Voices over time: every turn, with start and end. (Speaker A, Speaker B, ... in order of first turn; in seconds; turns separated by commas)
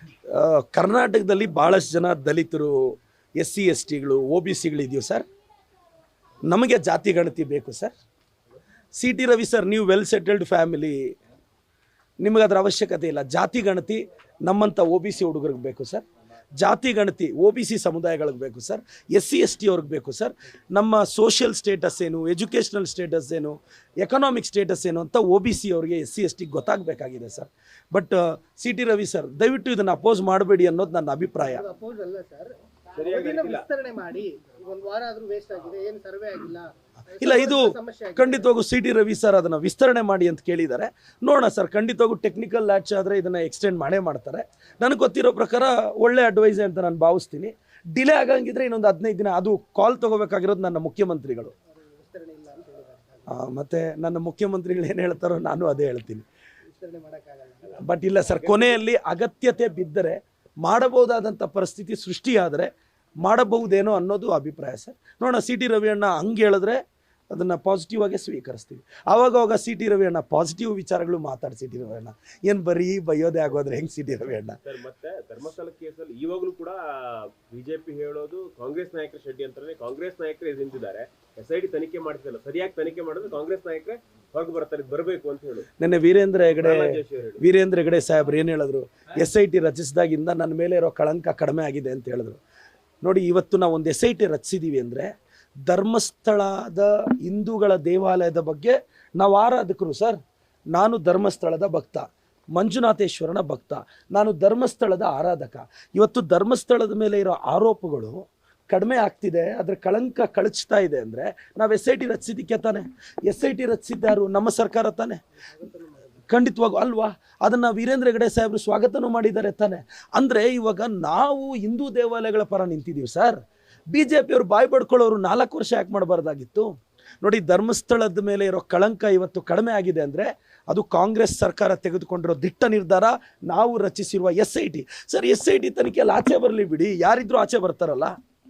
Speaker A: 0.3-5.2, Speaker A: 6.5-7.9, Speaker A: 8.9-11.1, Speaker A: 12.2-16.0, Speaker A: 16.6-31.6, Speaker B: 31.4-38.5, Speaker C: 32.9-33.6, Speaker A: 37.2-51.5, Speaker B: 51.7-53.3, Speaker A: 53.3-56.2, Speaker B: 56.7-57.8, Speaker A: 57.8-74.6, Speaker C: 58.2-58.8, Speaker C: 74.2-85.7, Speaker A: 85.8-92.4, Speaker C: 86.5-87.4, Speaker A: 93.0-95.1, Speaker A: 95.7-100.2, Speaker A: 100.7-115.2, Speaker B: 115.5-116.2, Speaker A: 116.3-123.4, Speaker A: 123.9-126.7, Speaker A: 127.2-138.1